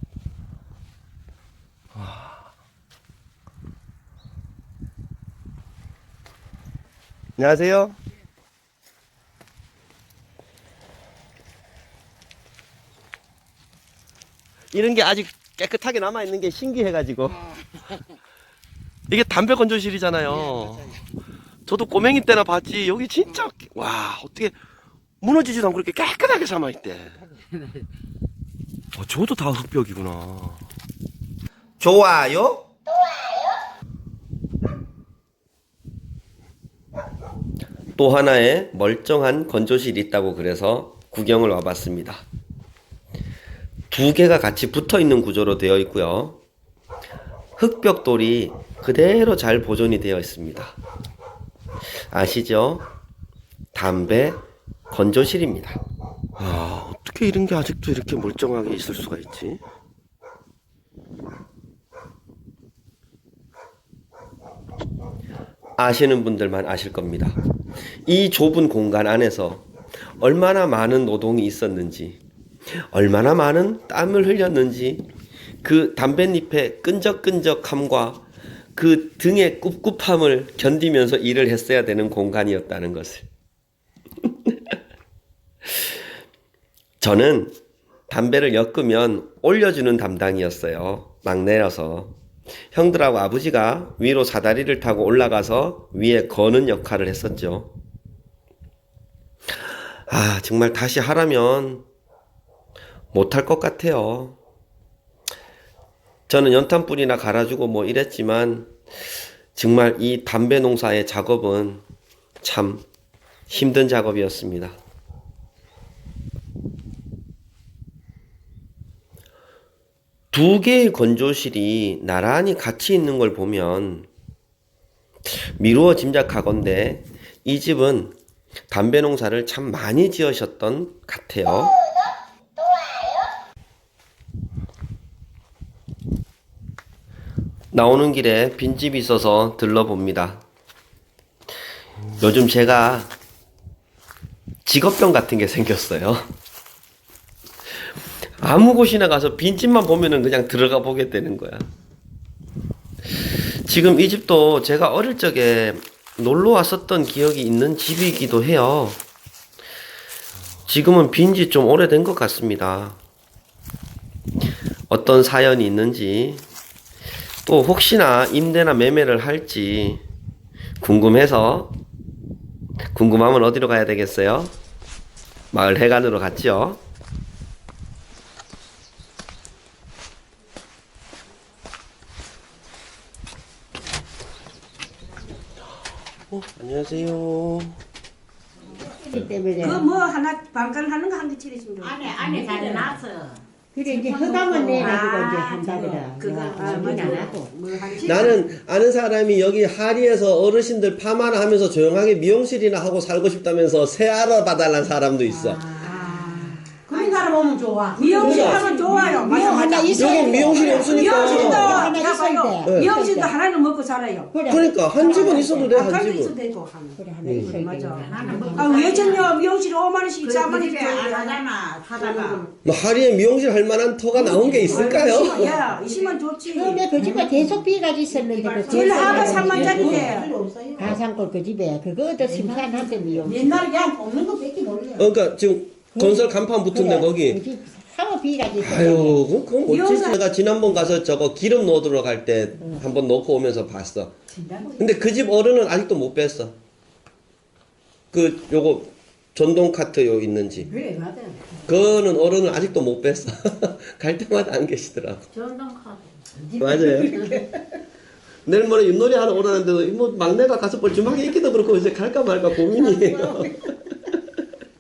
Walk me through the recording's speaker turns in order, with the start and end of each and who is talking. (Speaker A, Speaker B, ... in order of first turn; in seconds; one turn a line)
Speaker A: 1.9-2.4
Speaker A: 7.4-8.0
Speaker A: 14.7-17.4
Speaker A: 19.1-20.9
Speaker A: 21.7-24.6
Speaker A: 25.2-27.2
Speaker A: 28.9-30.6
Speaker A: 31.8-32.7
Speaker A: 38.0-42.2
Speaker A: 43.9-46.4
Speaker A: 47.6-50.8
Speaker A: 52.1-52.9
Speaker A: 53.7-54.4
Speaker A: 54.9-55.8
Speaker A: 56.4-59.6
Speaker A: 65.8-67.4
Speaker A: 68.1-72.2
Speaker A: 72.7-75.0
Speaker A: 75.6-78.2
Speaker A: 78.8-83.3
Speaker A: 84.2-84.7
Speaker A: 87.0-92.2
Speaker A: 92.7-97.7
Speaker A: 99.5-101.9
Speaker A: 103.1-104.4
Speaker A: 106.3-108.8
Speaker A: 109.5-111.8
Speaker A: 112.4-112.8
Speaker A: 113.5-114.8
Speaker A: 120.3-124.1
Speaker A: 125.3-128.2
Speaker A: 128.7-131.8
Speaker A: 137.7-140.4
Speaker A: 142.1-143.1
Speaker A: 144.7-146.3
Speaker A: 148.4-151.7
Speaker A: 153.2-159.0
Speaker A: 160.7-163.0
Speaker A: 164.9-166.4
Speaker A: 167.5-170.0
Speaker A: 170.8-171.8
Speaker A: 172.9-174.5
Speaker A: 175.5-176.8
Speaker A: 186.3-187.8
Speaker B: 189.1-189.9
Speaker C: 189.6-193.0
Speaker D: 191.8-197.4
Speaker B: 192.3-192.8
Speaker B: 193.7-197.5
Speaker C: 194.7-198.4
Speaker A: 198.0-205.7
Speaker C: 205.3-207.3
Speaker D: 206.9-211.7
Speaker C: 207.9-221.4
Speaker B: 208.2-213.3
Speaker A: 208.2-208.6
Speaker A: 209.9-211.9
Speaker A: 212.7-212.9
Speaker B: 214.3-215.8
Speaker A: 214.5-216.3
Speaker B: 217.0-219.2
Speaker A: 217.2-217.5
Speaker D: 217.9-219.3
Speaker D: 220.2-222.5
Speaker C: 222.0-222.4
Speaker A: 222.6-225.5
Speaker D: 224.2-226.2
Speaker C: 224.6-226.8
Speaker B: 224.9-225.5
Speaker B: 226.5-230.2
Speaker D: 227.0-227.6
Speaker D: 228.1-230.9
Speaker C: 228.7-230.3
Speaker B: 230.8-233.7
Speaker D: 232.2-235.1
Speaker C: 233.4-233.9
Speaker A: 235.0-237.4
Speaker B: 235.9-239.2
Speaker A: 238.6-244.1
Speaker C: 239.7-240.2
Speaker C: 244.3-244.6
Speaker A: 244.8-246.6
Speaker A: 248.1-250.7
Speaker D: 250.8-251.5
Speaker A: 251.7-255.3
Speaker B: 255.4-255.9
Speaker A: 256.6-257.3
Speaker A: 258.4-264.1